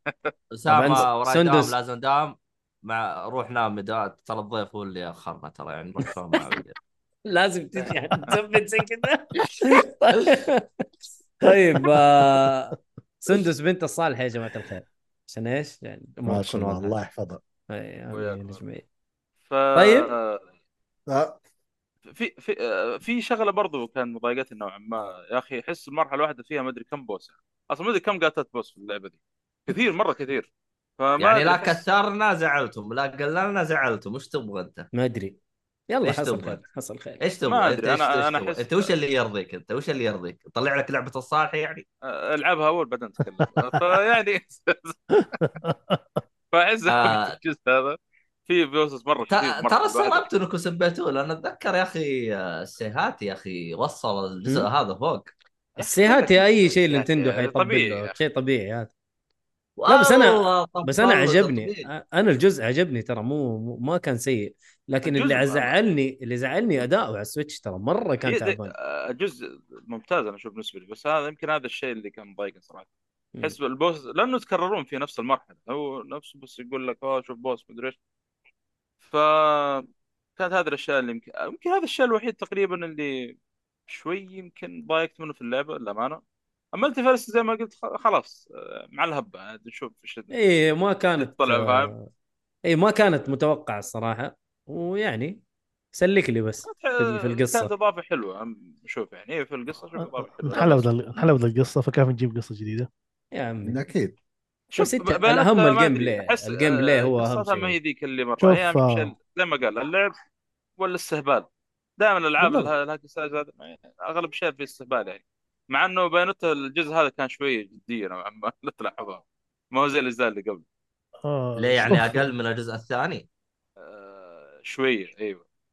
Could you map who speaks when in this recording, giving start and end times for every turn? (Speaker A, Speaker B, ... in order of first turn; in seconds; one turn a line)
Speaker A: 0.5-6.8
Speaker B: 0.7-1.8
Speaker B: 7.3-10.8
Speaker A: 10.2-10.4
Speaker B: 11.4-16.9
Speaker C: 16.3-17.4
Speaker B: 17.7-18.9
Speaker D: 18.1-18.6
Speaker D: 19.5-20.4
Speaker B: 19.8-20.1
Speaker C: 21.1-21.4
Speaker D: 22.1-31.8
Speaker A: 31.2-34.9
Speaker B: 34.9-35.4
Speaker B: 35.9-37.2
Speaker A: 36.0-36.6
Speaker A: 37.2-41.9
Speaker D: 37.5-38.9
Speaker D: 42.1-45.2
Speaker E: 45.2-46.0
Speaker D: 46.5-50.3
Speaker A: 46.9-47.4
Speaker A: 49.3-55.3
Speaker B: 55.8-58.9
Speaker D: 55.8-58.1
Speaker A: 59.8-61.9
Speaker B: 59.9-68.7
Speaker D: 65.0-65.7
Speaker D: 68.3-72.9
Speaker D: 73.4-78.0
Speaker D: 79.0-79.9
Speaker D: 80.4-83.3
Speaker D: 83.9-86.2
Speaker D: 86.7-90.3
Speaker B: 90.3-92.1
Speaker D: 91.2-91.9
Speaker B: 92.7-95.4
Speaker B: 95.9-97.7
Speaker D: 96.7-100.9
Speaker E: 100.4-102.9
Speaker B: 103.3-103.8
Speaker C: 103.7-104.2
Speaker D: 104.7-110.1
Speaker B: 104.8-107.8
Speaker E: 108.4-109.1
Speaker D: 110.8-111.5
Speaker D: 112.0-120.6
Speaker E: 121.2-122.2
Speaker A: 121.6-123.3
Speaker D: 123.8-125.4